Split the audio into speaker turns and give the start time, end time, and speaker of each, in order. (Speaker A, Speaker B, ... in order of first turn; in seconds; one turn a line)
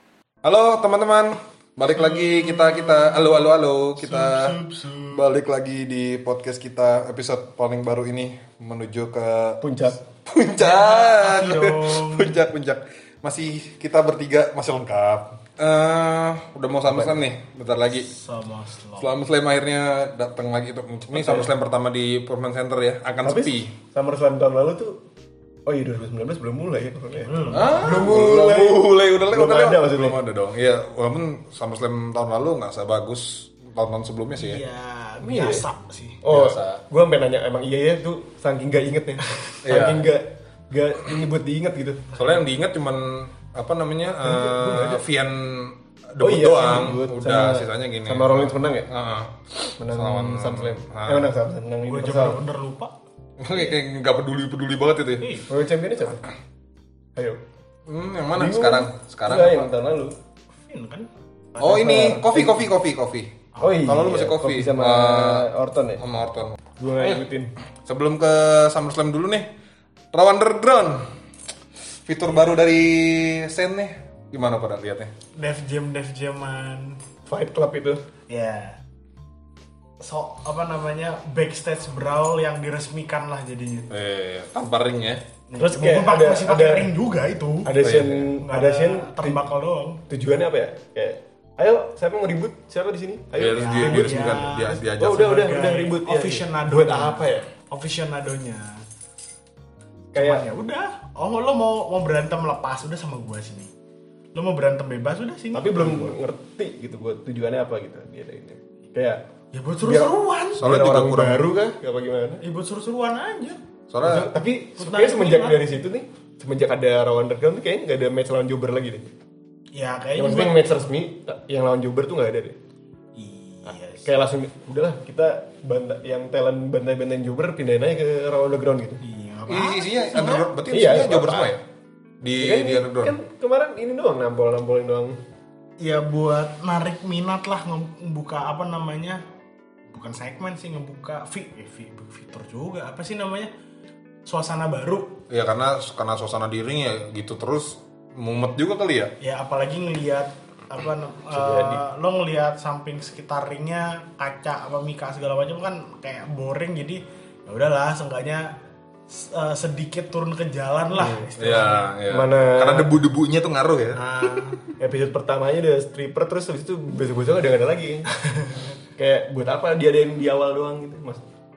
Speaker A: 0.4-4.6
Speaker B: 1.9-5.2
Speaker A: 5.1-9.6
Speaker C: 9.6-10.0
Speaker A: 10.3-18.1
Speaker B: 10.6-12.4
Speaker C: 16.9-17.2
Speaker B: 18.1-19.1
Speaker A: 19.0-23.7
Speaker C: 21.1-21.5
Speaker C: 23.2-25.0
Speaker C: 25.7-30.2
Speaker B: 27.2-27.8
Speaker A: 27.5-34.6
Speaker B: 34.4-36.2
Speaker C: 35.2-35.7
Speaker C: 36.2-42.1
Speaker A: 36.3-36.8
Speaker A: 39.6-40.1
Speaker B: 42.1-42.4
Speaker A: 42.1-49.3
Speaker C: 44.2-45.0
Speaker C: 46.2-48.9
Speaker C: 49.8-52.4
Speaker A: 49.9-51.3
Speaker B: 51.9-52.9
Speaker A: 53.4-55.3
Speaker B: 55.2-55.5
Speaker C: 55.5-56.2
Speaker C: 57.2-57.4
Speaker A: 57.9-59.7
Speaker C: 58.4-60.2
Speaker B: 60.7-62.0
Speaker A: 61.6-67.2
Speaker C: 61.6-62.7
Speaker C: 63.6-66.0
Speaker C: 66.8-67.5
Speaker A: 67.9-69.5
Speaker A: 70.1-71.1
Speaker A: 72.1-75.1
Speaker B: 75.4-77.0
Speaker C: 77.3-78.0
Speaker B: 78.3-78.8
Speaker B: 80.0-83.9
Speaker A: 83.9-85.2
Speaker B: 85.5-87.7
Speaker C: 85.6-86.9
Speaker C: 87.6-89.5
Speaker A: 87.8-88.3
Speaker B: 88.4-90.0
Speaker C: 90.1-97.5
Speaker A: 93.4-95.4
Speaker B: 93.5-98.8
Speaker C: 100.1-100.5
Speaker B: 100.2-103.7
Speaker B: 104.3-106.2
Speaker C: 105.5-109.2
Speaker B: 109.5-110.7
Speaker C: 109.8-112.4
Speaker A: 110.6-111.5
Speaker B: 112.4-113.6
Speaker A: 113.9-114.3
Speaker C: 114.0-119.1
Speaker B: 114.8-115.6
Speaker B: 119.7-120.8
Speaker C: 120.2-122.6
Speaker B: 123.2-124.1
Speaker C: 124.0-129.0
Speaker B: 129.0-130.5
Speaker A: 129.5-131.6
Speaker C: 130.7-131.6
Speaker A: 132.2-133.2
Speaker C: 132.4-135.2
Speaker B: 135.8-139.2
Speaker B: 139.9-143.5
Speaker B: 144.3-145.2
Speaker A: 145.3-149.1
Speaker B: 149.2-158.5
Speaker C: 151.3-151.8
Speaker B: 159.1-161.8
Speaker C: 160.9-161.2
Speaker A: 161.4-164.4
Speaker C: 162.1-163.0
Speaker B: 163.9-164.6
Speaker C: 164.8-168.1
Speaker B: 168.2-168.7
Speaker C: 169.0-171.3